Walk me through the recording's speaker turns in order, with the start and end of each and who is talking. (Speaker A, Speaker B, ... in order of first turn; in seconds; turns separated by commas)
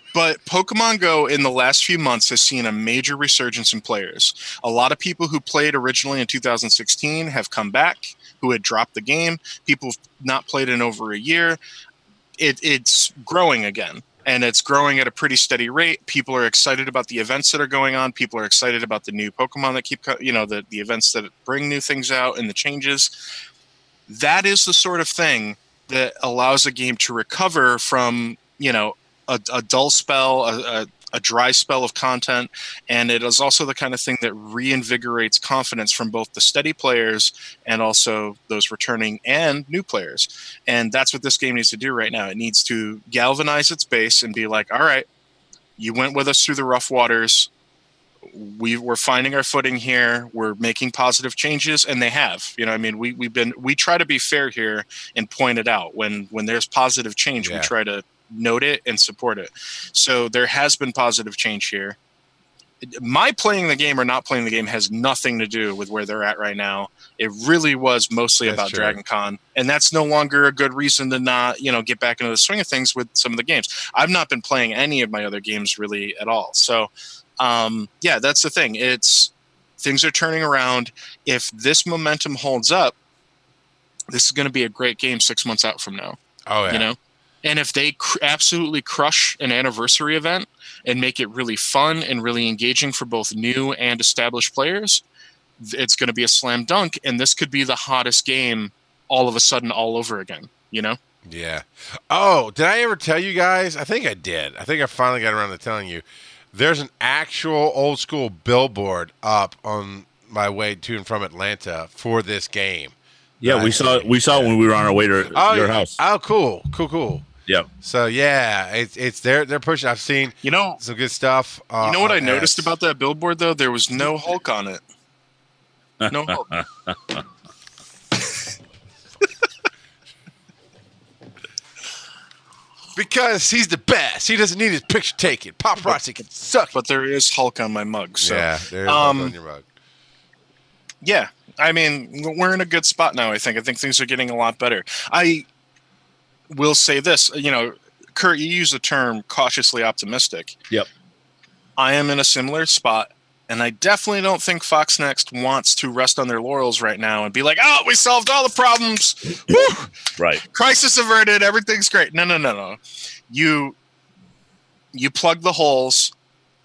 Speaker A: 0.1-11.6, Speaker A: 12.4-23.1, Speaker A: 24.1-45.0, Speaker A: 45.8-47.5, Speaker A: 48.3-62.0, Speaker B: 57.4-57.7, Speaker A: 62.8-82.9, Speaker B: 68.5-69.0, Speaker A: 84.1-86.2, Speaker B: 86.5-86.9, Speaker A: 86.7-95.0, Speaker A: 95.6-101.0, Speaker B: 101.2-114.5, Speaker C: 113.4-116.0, Speaker B: 115.3-117.2, Speaker B: 117.8-122.7, Speaker A: 120.4-120.8, Speaker A: 121.8-124.8, Speaker C: 126.0-127.2, Speaker A: 126.1-126.5, Speaker B: 132.9-136.7, Speaker A: 136.7-139.3, Speaker B: 138.2-139.7, Speaker A: 141.0-145.4, Speaker A: 146.5-150.6, Speaker A: 151.8-159.9, Speaker C: 160.2-160.4, Speaker A: 160.5-163.7, Speaker A: 164.9-166.1